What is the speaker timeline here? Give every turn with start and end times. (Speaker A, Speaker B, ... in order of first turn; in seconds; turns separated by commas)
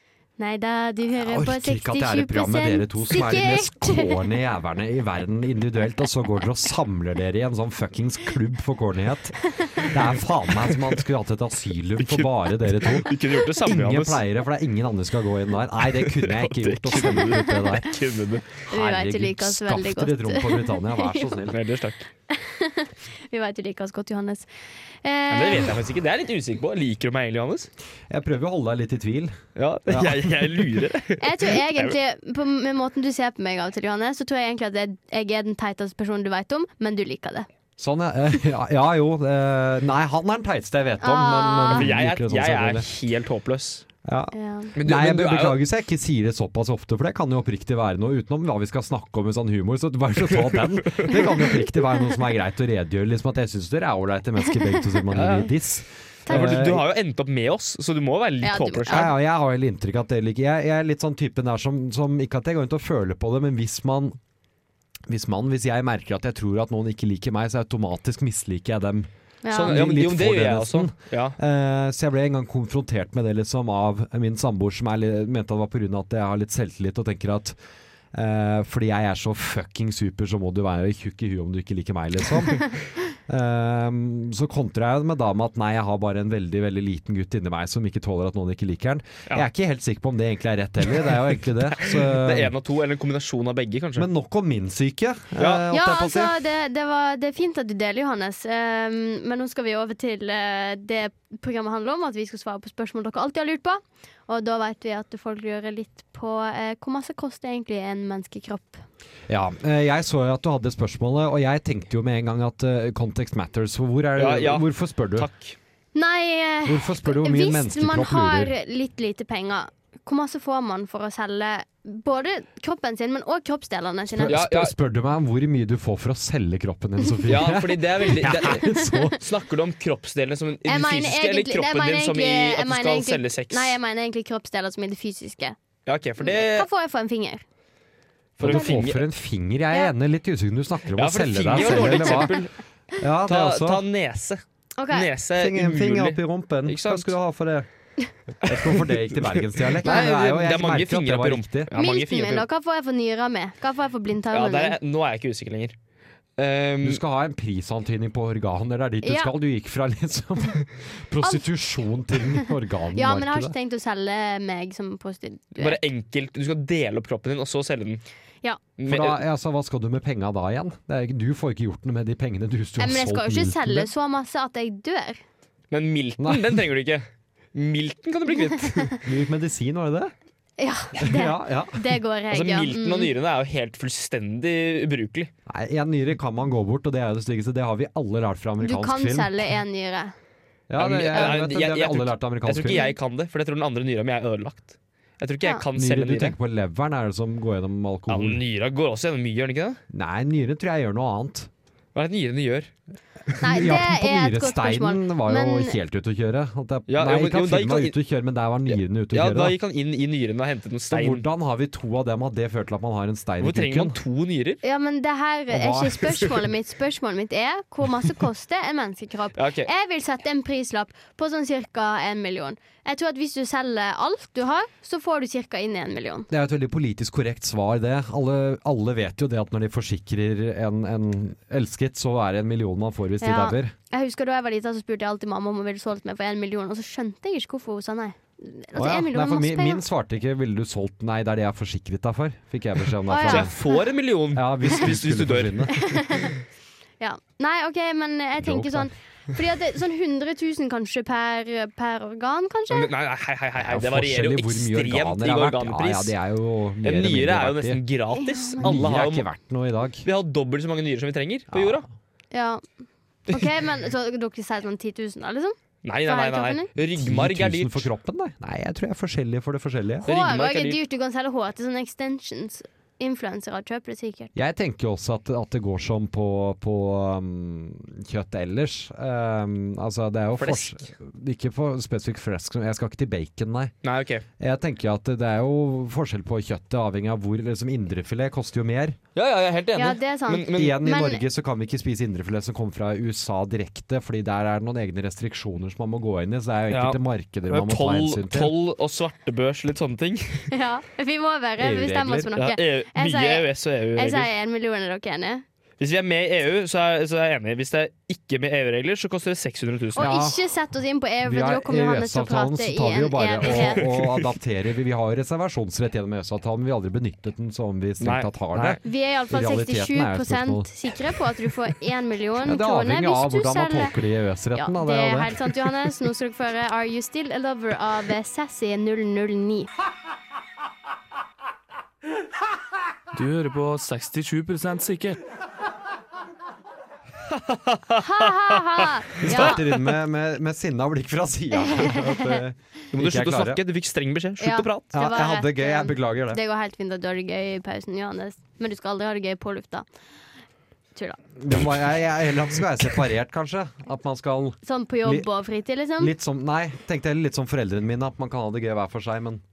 Speaker A: 0.4-4.3, Speaker B: 1.2-18.0, Speaker A: 9.4-9.9, Speaker C: 10.6-11.0, Speaker C: 12.0-14.2, Speaker C: 15.8-18.6, Speaker A: 16.9-17.7, Speaker A: 18.7-21.3, Speaker B: 18.7-21.6, Speaker C: 21.5-22.1, Speaker A: 22.3-24.5, Speaker A: 25.0-25.8, Speaker C: 25.3-27.7, Speaker B: 28.1-30.6, Speaker C: 29.6-32.0, Speaker A: 31.2-37.5, Speaker B: 37.8-42.9, Speaker A: 41.0-41.9, Speaker C: 41.7-43.9, Speaker B: 44.0-56.9, Speaker A: 44.3-44.8, Speaker C: 44.8-45.6, Speaker C: 50.5-51.3, Speaker A: 51.1-51.6, Speaker C: 55.1-55.5, Speaker A: 56.3-56.6, Speaker C: 56.3-59.2, Speaker A: 58.4-59.1, Speaker B: 58.9-64.2, Speaker B: 65.1-69.1, Speaker A: 69.4-69.8, Speaker C: 69.5-71.4, Speaker B: 69.7-77.6, Speaker B: 78.1-92.5, Speaker C: 91.8-94.1, Speaker B: 94.0-96.3, Speaker C: 95.4-95.7, Speaker A: 95.7-108.8, Speaker B: 109.3-115.3, Speaker C: 114.2-115.6, Speaker A: 116.0-124.4, Speaker B: 116.7-118.5, Speaker B: 124.1-129.2, Speaker C: 124.3-124.7, Speaker C: 127.3-133.8, Speaker A: 128.3-129.1, Speaker A: 130.7-135.6, Speaker C: 135.9-136.7, Speaker A: 136.2-137.4, Speaker B: 138.4-142.4, Speaker C: 138.4-139.0, Speaker A: 138.4-138.9, Speaker C: 140.9-142.5, Speaker A: 141.8-142.3, Speaker B: 143.0-143.8, Speaker C: 143.2-147.1, Speaker A: 144.8-145.1, Speaker B: 145.3-147.7, Speaker B: 148.4-151.7, Speaker C: 148.4-152.5, Speaker A: 151.7-154.8, Speaker C: 154.3-155.8, Speaker C: 156.4-157.0, Speaker B: 156.8-163.5, Speaker A: 159.0-159.3, Speaker A: 162.9-165.8, Speaker C: 165.6-168.0, Speaker C: 168.8-169.2, Speaker B: 168.8-173.9, Speaker A: 172.8-175.2, Speaker C: 175.7-179.0, Speaker B: 176.2-176.6, Speaker A: 178.5-179.0, Speaker B: 179.0-180.1, Speaker A: 180.6-183.1, Speaker B: 181.0-181.9, Speaker C: 182.3-185.3, Speaker B: 185.5-189.5, Speaker A: 188.6-190.1, Speaker B: 190.7-192.8, Speaker C: 190.8-196.4, Speaker A: 191.1-191.4, Speaker A: 192.6-192.9, Speaker B: 195.8-198.4, Speaker C: 198.1-199.8, Speaker B: 199.9-201.5, Speaker C: 201.9-202.7, Speaker B: 203.3-209.6, Speaker A: 203.4-205.8, Speaker C: 206.9-208.0, Speaker C: 208.7-211.3, Speaker B: 210.9-214.0, Speaker C: 213.4-214.6, Speaker A: 214.6-226.3, Speaker B: 215.5-216.3, Speaker C: 219.3-219.7, Speaker B: 226.3-233.7, Speaker A: 233.2-239.8, Speaker B: 238.8-243.5, Speaker A: 243.1-243.8, Speaker C: 243.3-245.7, Speaker B: 244.3-246.0, Speaker A: 245.7-246.3, Speaker A: 247.0-252.9, Speaker B: 248.4-248.9, Speaker C: 252.7-256.1, Speaker B: 253.6-257.8, Speaker C: 256.8-259.3, Speaker A: 258.1-258.6, Speaker B: 258.6-260.1, Speaker C: 260.0-261.9, Speaker B: 261.5-261.9, Speaker A: 262.3-262.6, Speaker A: 263.3-266.7, Speaker C: 265.8-267.9, Speaker B: 267.0-270.1, Speaker C: 270.1-270.8, Speaker A: 270.1-274.3, Speaker B: 274.4-283.7, Speaker C: 280.4-280.8, Speaker C: 283.8-284.2, Speaker B: 284.4-289.0, Speaker C: 289.1-290.8, Speaker A: 289.8-291.2, Speaker B: 290.5-298.6, Speaker C: 296.7-300.5, Speaker A: 300.5-305.4, Speaker B: 301.6-302.3, Speaker C: 302.4-304.3, Speaker C: 305.8-310.1, Speaker A: 310.0-313.8, Speaker B: 310.0-310.4, Speaker B: 311.2-320.7, Speaker C: 313.4-314.3, Speaker C: 318.0-318.8, Speaker A: 318.8-324.0, Speaker B: 322.4-325.5, Speaker A: 324.6-329.7, Speaker D: 333.1-335.2, Speaker C: 337.3-339.9, Speaker A: 338.0-339.6, Speaker B: 339.2-343.6, Speaker A: 341.6-342.4, Speaker C: 342.9-344.9, Speaker A: 344.4-349.9, Speaker B: 344.9-346.4, Speaker B: 351.4-355.3, Speaker A: 354.6-356.1, Speaker B: 356.0-359.4